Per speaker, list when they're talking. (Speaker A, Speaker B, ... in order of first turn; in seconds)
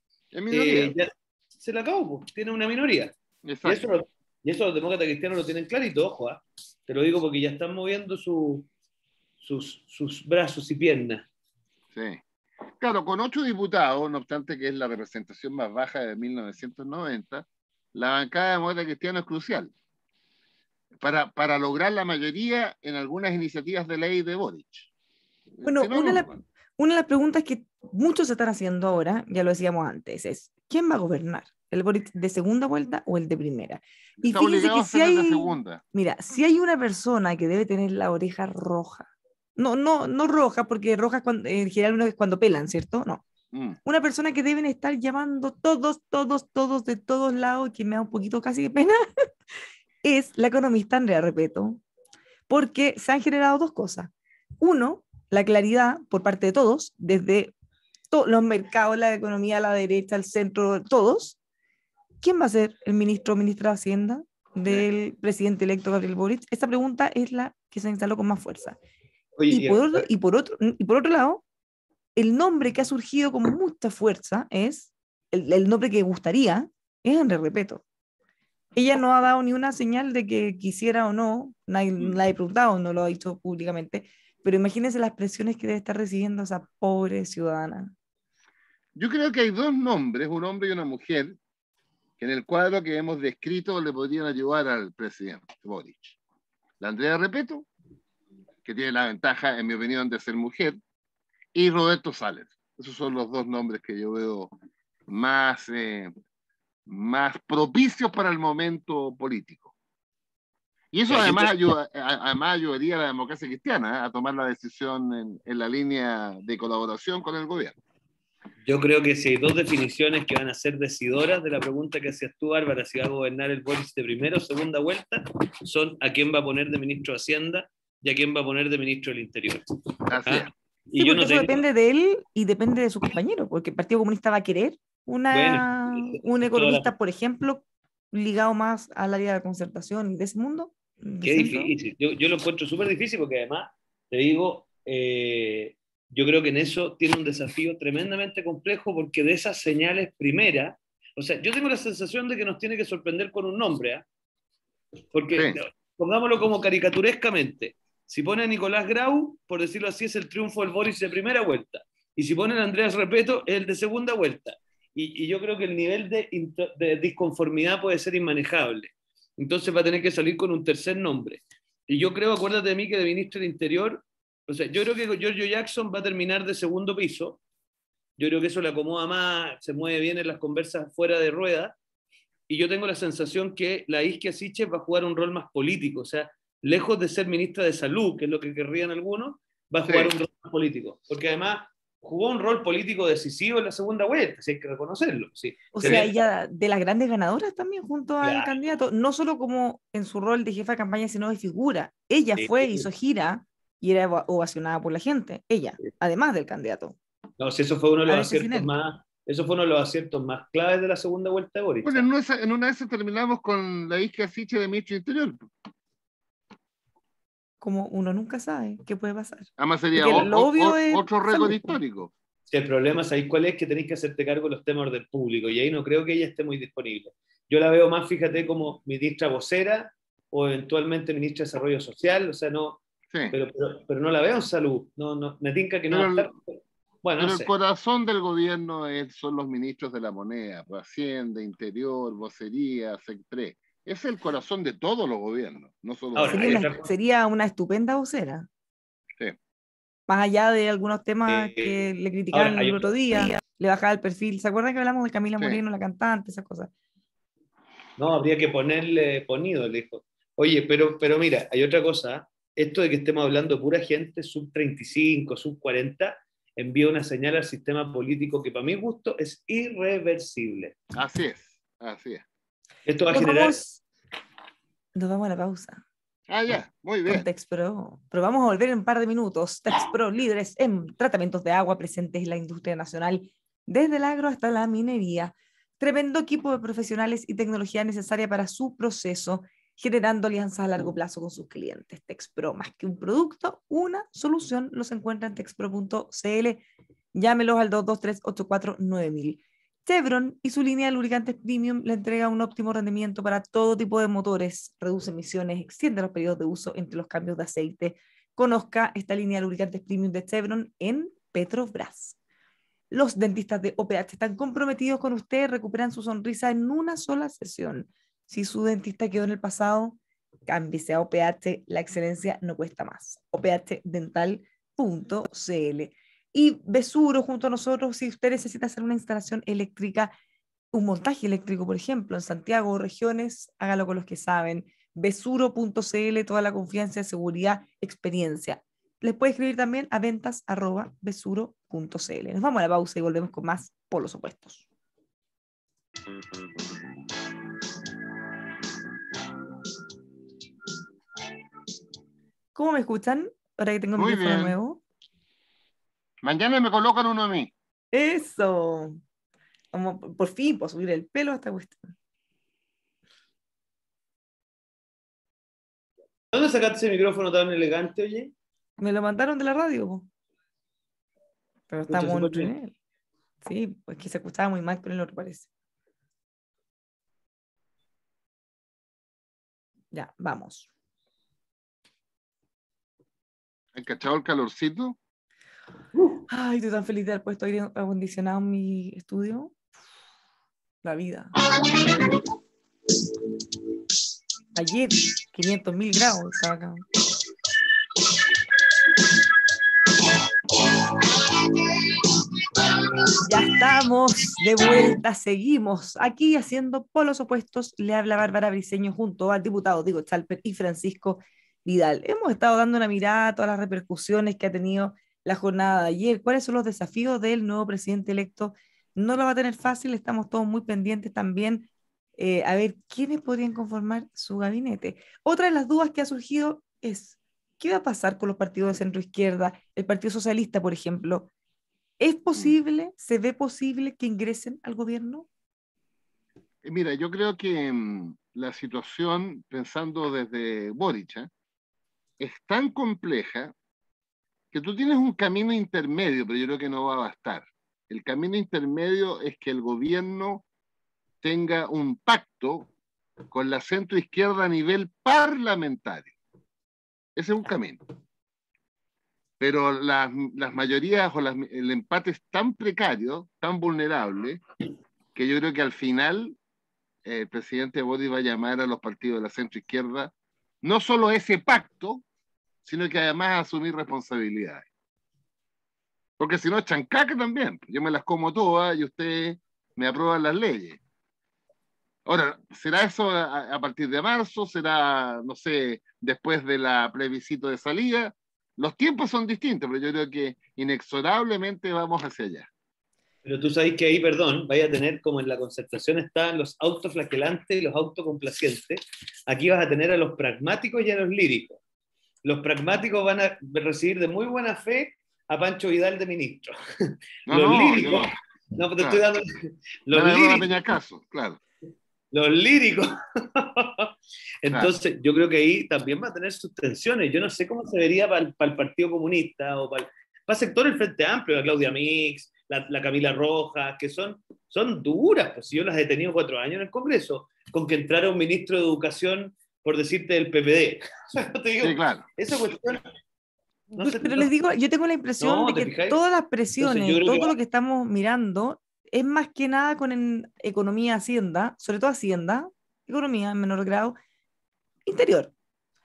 Speaker A: 0.3-1.0, 3.4-3.8, 11.9-12.2, 12.8-19.7, 21.0-24.9, 25.6-26.3, 34.2-35.8, 43.5-43.8, 89.0-91.4, 92.2-96.2, 96.8-97.7, 98.7-100.8, 101.5-104.5, 105.1-106.1, 106.9-109.7, 110.9-117.7, 130.1-130.5, 155.3-155.6, 189.9-190.1, 211.8-215.5, 219.6-222.1, 235.9-236.3, 237.2-246.7, 270.9-272.2, 276.3-277.3, 354.0-354.6, 356.2-357.5, 383.8-385.0, 436.6-441.3, 442.2-443.5, 444.5-450.4, 451.2-452.7, 453.3-456.1, 457.1-457.8, 459.4-464.4, 465.1-466.4, 467.1-470.1, 470.6-472.0, 472.6-474.7, 476.2-480.8, 482.1-492.5, 507.3-508.1, 508.8-509.0, 509.9-511.4, 531.6-532.0
Speaker B: 0.5-8.7, 9.4-11.3, 69.4-70.1, 111.1-111.5, 118.7-129.6, 130.2-131.7, 135.3-136.9, 141.2-154.1, 155.1-177.4, 178.2-181.7, 182.5-196.2, 198.2-198.5, 202.4-202.9, 207.4-212.1, 222.5-237.5, 246.1-246.9, 251.3-253.4, 258.0-270.8, 272.9-273.6, 366.3-368.3, 371.9-372.5, 385.9-386.2, 493.2-501.6, 502.2-510.5, 512.1-532.9, 533.7-534.3, 535.2-536.0, 536.6-537.4
Speaker C: 25.6-43.2, 43.9-49.0, 50.0-51.8, 52.5-57.5, 58.1-61.4, 62.2-68.8, 69.5-71.4, 72.2-77.8, 78.8-87.9, 131.0-141.7, 195.8-207.0, 208.1-208.7, 217.6-221.8, 246.3-248.5, 250.1-256.7, 273.1-273.8, 274.9-275.8, 277.1-312.2, 312.9-330.1, 330.7-344.6, 352.6-354.8, 357.9-359.0, 359.7-361.9, 368.8-370.1, 371.7-372.7, 373.4-375.5, 379.9-380.7, 386.3-389.5, 390.8-391.4, 394.6-396.9, 403.2-431.3, 432.0-435.3, 533.8-544.0, 544.9-545.3